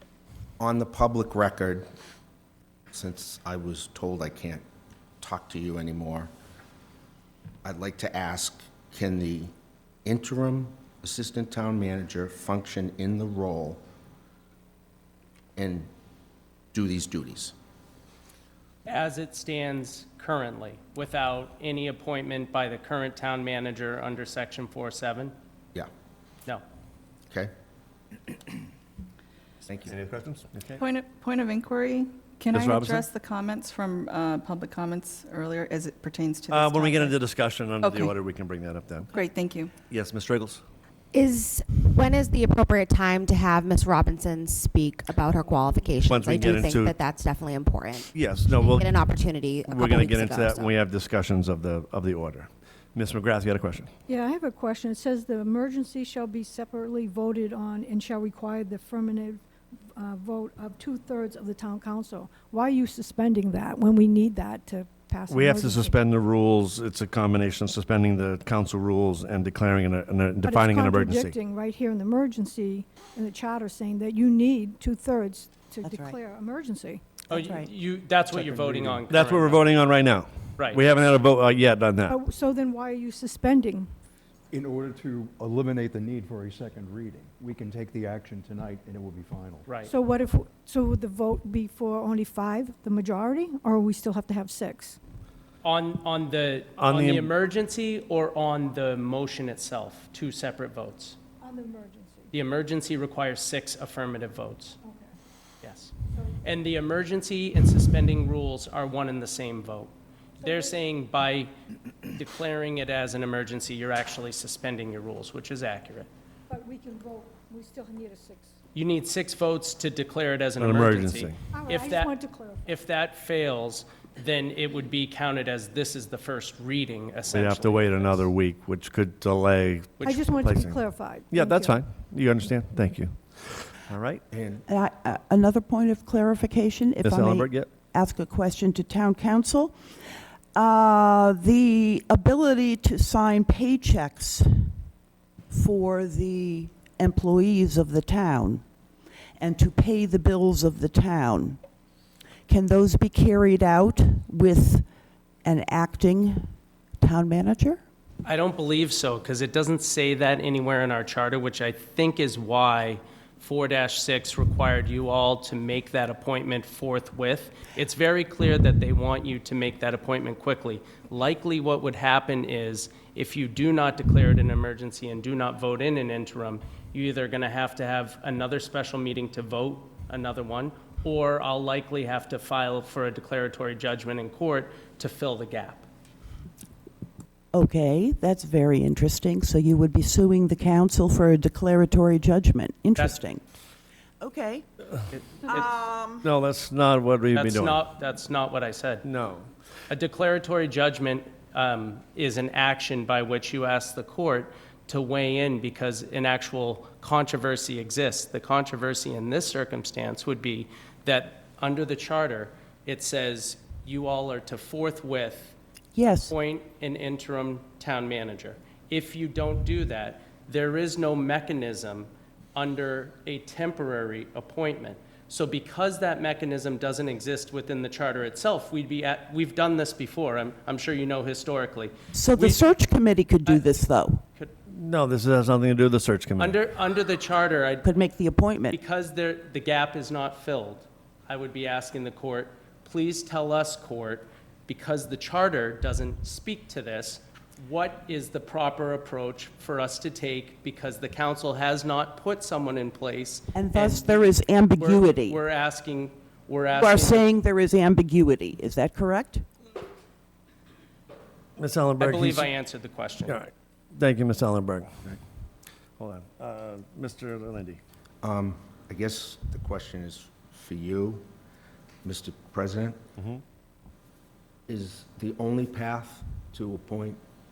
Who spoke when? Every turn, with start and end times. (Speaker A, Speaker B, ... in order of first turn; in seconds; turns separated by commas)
Speaker A: 0.6-1.9, Speaker A: 2.9-4.6, Speaker A: 5.2-6.3, Speaker A: 7.6-9.5, Speaker A: 10.0-13.8, Speaker A: 15.6-15.9, Speaker A: 16.7-17.5, Speaker B: 18.9-25.3, Speaker A: 29.7-29.9, Speaker C: 29.8-30.8, Speaker D: 30.8-38.1, Speaker C: 32.5-33.0, Speaker C: 36.5-39.1, Speaker D: 39.1-39.7, Speaker C: 39.9-40.6, Speaker E: 41.1-50.7, Speaker C: 46.0-46.9, Speaker C: 48.1-48.9, Speaker C: 49.7-53.9, Speaker F: 54.1-59.4, Speaker F: 60.0-65.9, Speaker C: 65.3-71.3, Speaker F: 70.4-77.0, Speaker G: 75.8-76.1, Speaker B: 77.3-79.7, Speaker G: 77.4-77.7, Speaker H: 78.3-79.0, Speaker C: 79.1-82.2, Speaker B: 80.6-80.8, Speaker F: 82.1-83.9, Speaker H: 84.5-89.7, Speaker B: 89.7-89.9, Speaker F: 89.8-95.0, Speaker B: 95.6-101.2, Speaker C: 96.8-97.3, Speaker F: 101.4-102.3, Speaker B: 102.3-104.8, Speaker F: 104.8-105.1, Speaker B: 105.6-111.5, Speaker F: 106.1-106.4, Speaker F: 110.4-110.8, Speaker B: 112.1-116.1, Speaker F: 116.5-118.5, Speaker B: 118.7-122.1, Speaker C: 120.6-121.3, Speaker F: 121.5-122.8, Speaker B: 122.6-128.3, Speaker C: 127.3-134.2, Speaker B: 130.0-130.3, Speaker F: 130.0-131.8, Speaker A: 134.3-134.6, Speaker G: 134.7-139.7, Speaker C: 137.0-137.7, Speaker G: 140.6-144.5, Speaker G: 145.5-148.6, Speaker G: 149.4-151.6, Speaker G: 152.5-154.8, Speaker G: 155.4-156.4, Speaker G: 157.0-157.8, Speaker B: 158.2-185.9, Speaker G: 187.5-193.4, Speaker G: 194.2-194.6, Speaker B: 195.3-195.7, Speaker G: 195.4-196.2, Speaker C: 196.2-197.8, Speaker B: 197.3-199.1, Speaker C: 199.0-199.5, Speaker B: 199.9-215.5, Speaker B: 216.2-232.6, Speaker G: 232.1-234.2, Speaker B: 233.4-233.8, Speaker C: 234.7-236.6, Speaker B: 236.4-237.9, Speaker G: 237.8-238.8, Speaker B: 238.7-257.3, Speaker G: 253.5-255.4, Speaker G: 256.7-259.4, Speaker C: 261.6-262.5, Speaker B: 262.0-263.4, Speaker C: 263.2-265.0, Speaker C: 266.0-267.8, Speaker A: 268.2-271.2, Speaker A: 272.0-273.0, Speaker C: 273.2-273.4, Speaker A: 274.7-277.2